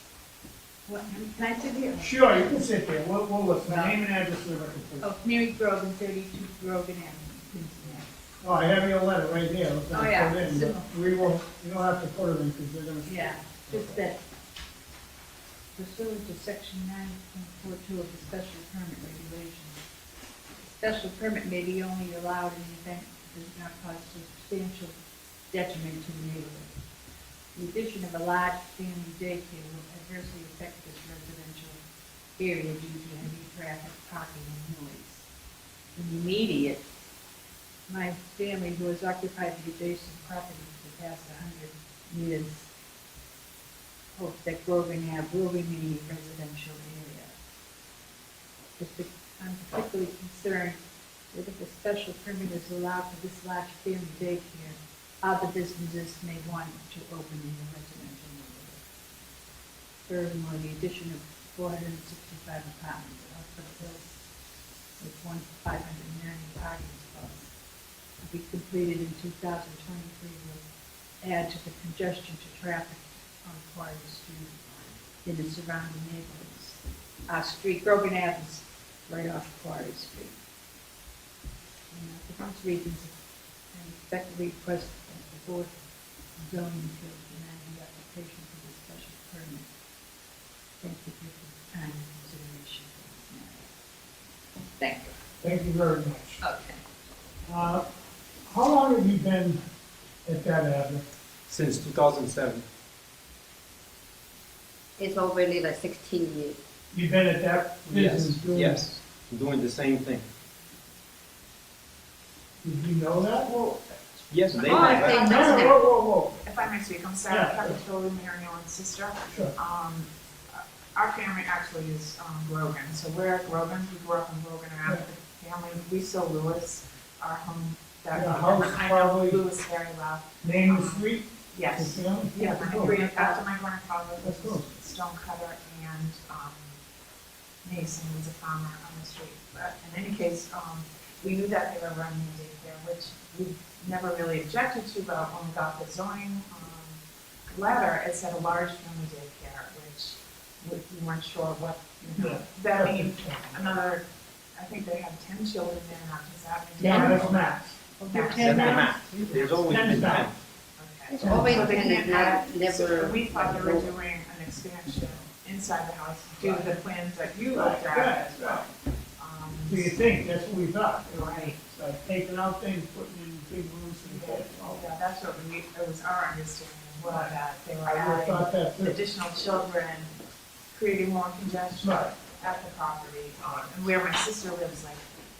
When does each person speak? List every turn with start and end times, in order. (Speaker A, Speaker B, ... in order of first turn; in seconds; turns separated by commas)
Speaker A: 0.9-2.2, Speaker B: 2.0-5.1, Speaker A: 3.7-4.0, Speaker A: 5.0-8.1, Speaker B: 8.4-14.0, Speaker A: 9.9-10.9, Speaker A: 13.1-14.2, Speaker A: 15.8-19.8, Speaker A: 20.8-24.9, Speaker A: 25.5-26.8, Speaker A: 27.6-31.8, Speaker A: 32.4-35.3, Speaker A: 36.0-36.8, Speaker A: 37.9-42.7, Speaker A: 44.2-47.3, Speaker A: 48.8-50.8, Speaker A: 51.3-58.8, Speaker A: 60.1-64.1, Speaker A: 65.0-67.5, Speaker A: 68.2-70.6, Speaker A: 71.2-74.6, Speaker A: 75.2-80.4, Speaker A: 81.9-83.1, Speaker A: 83.7-85.7, Speaker A: 86.4-89.7, Speaker A: 90.8-93.7, Speaker A: 94.8-95.2, Speaker B: 95.4-96.4, Speaker A: 96.4-96.8, Speaker B: 97.5-97.8, Speaker B: 98.5-99.6, Speaker B: 100.3-101.0, Speaker C: 101.5-102.7, Speaker D: 105.0-106.6, Speaker B: 106.9-108.9, Speaker C: 107.9-110.3, Speaker B: 112.6-113.5, Speaker E: 113.5-113.8, Speaker C: 114.3-115.4, Speaker E: 114.5-115.7, Speaker B: 114.7-116.4, Speaker D: 114.7-115.8, Speaker E: 116.4-136.8, Speaker B: 117.3-117.8, Speaker B: 128.1-129.4, Speaker B: 130.4-132.9, Speaker A: 132.3-133.4, Speaker B: 134.2-134.7, Speaker E: 137.6-147.0, Speaker E: 147.5-154.0, Speaker B: 152.2-153.8, Speaker E: 154.6-157.4, Speaker B: 156.8-157.8, Speaker A: 156.8-157.2, Speaker A: 158.0-159.3, Speaker E: 158.0-159.8, Speaker B: 158.4-158.8, Speaker C: 158.4-160.3, Speaker B: 159.7-160.3, Speaker E: 160.8-170.0, Speaker D: 161.1-163.9, Speaker B: 161.2-161.8, Speaker B: 166.4-166.7, Speaker B: 167.5-168.7, Speaker B: 169.7-174.8, Speaker E: 171.1-171.6, Speaker E: 174.0-180.1, Speaker B: 177.0-179.0, Speaker E: 180.7-185.0, Speaker B: 181.8-182.1